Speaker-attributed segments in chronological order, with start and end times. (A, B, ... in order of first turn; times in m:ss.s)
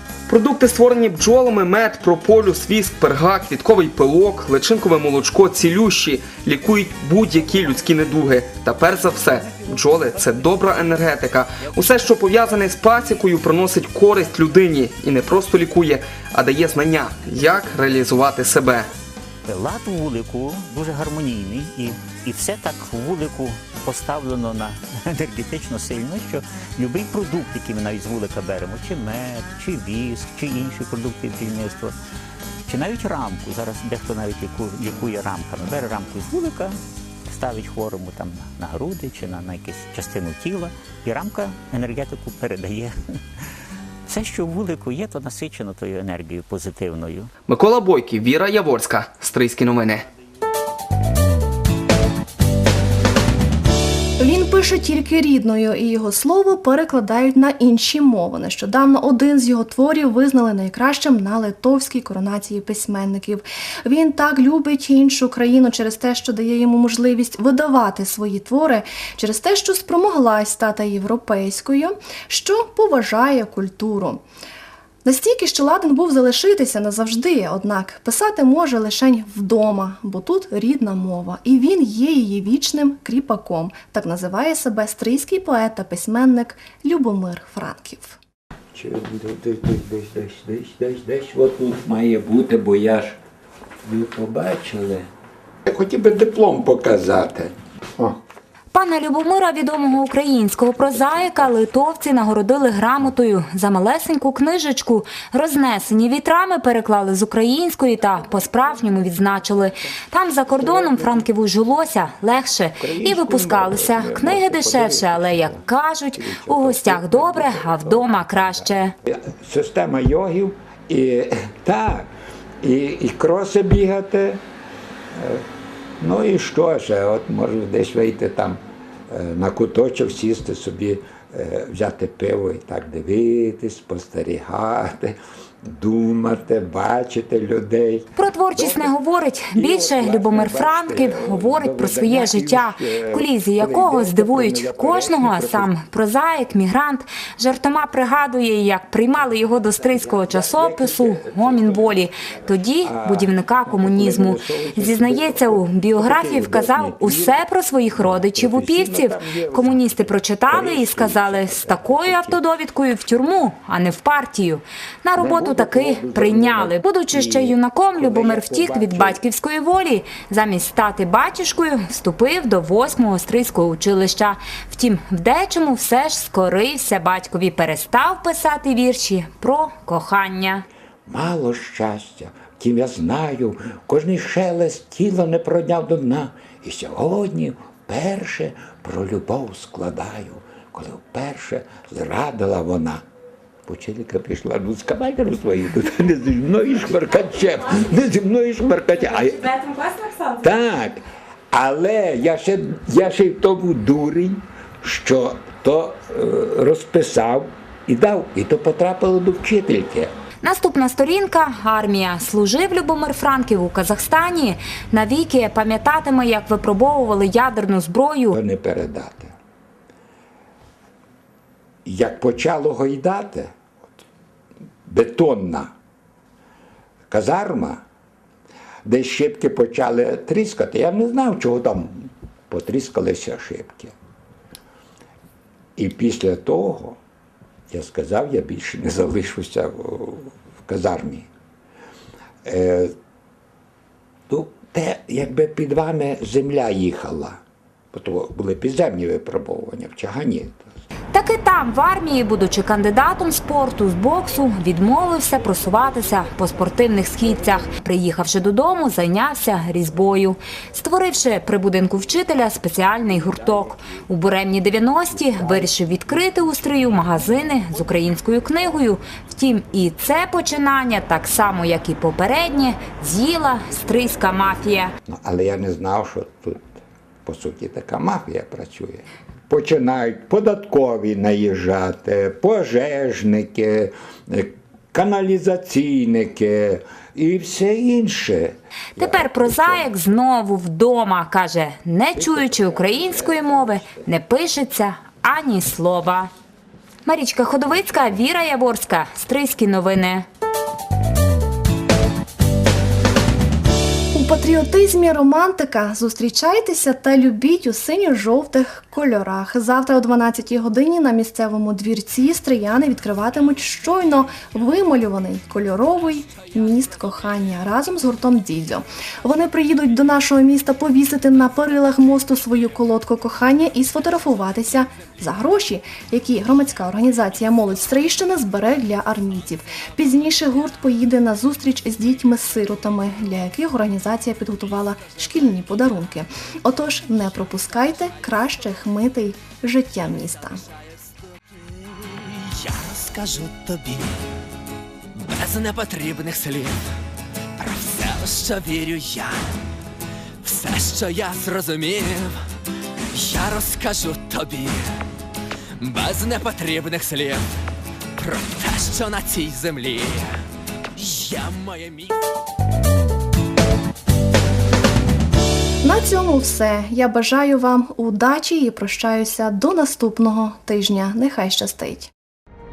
0:00.3-0:18.9 A
0:19.5-0:31.9 B
0:32.7-0:43.0 B
0:44.1-0:47.3 B
0:47.5-0:50.1 A
0:54.2-1:14.2 C
1:15.0-1:28.2 C
1:28.7-1:33.2 D
1:33.8-1:35.1 D
1:35.7-1:38.2 D
1:38.7-1:58.9 E
1:50.5-1:51.2 D
1:52.8-2:02.1 D
2:02.6-2:04.4 D
2:05.1-2:05.5 D
2:06.0-2:19.0 D
2:18.2-3:00.6 E
2:19.5-2:25.7 D
2:29.6-2:42.4 D
2:45.2-2:49.2 D
3:01.1-3:13.0 D
3:13.7-3:30.1 D
3:30.4-3:38.4 E
3:38.3-3:39.3 D
3:41.8-3:43.5 D
3:44.9-3:45.7 D
3:47.1-3:47.8 D
3:48.8-3:53.9 D
3:55.8-3:57.0 D
3:57.7-4:01.3 D
4:02.4-4:02.9 D
4:04.3-4:07.4 D
4:07.9-4:10.7 D
4:11.1-4:34.9 E
4:35.1-4:36.7 D
4:37.2-4:50.0 D
4:49.0-4:56.3 E
4:52.1-4:54.1 D
4:57.1-5:00.3 E
4:57.8-4:58.2 D
5:04.1-5:40.6 C
5:42.1-5:44.2 F
5:45.2-5:46.8 F
5:47.6-5:49.6 F
5:50.4-5:52.4 F
5:53.1-5:55.0 F
5:55.8-5:57.5 F
5:58.2-6:00.4 F
6:01.0-6:02.2 F
6:05.8-6:12.1 C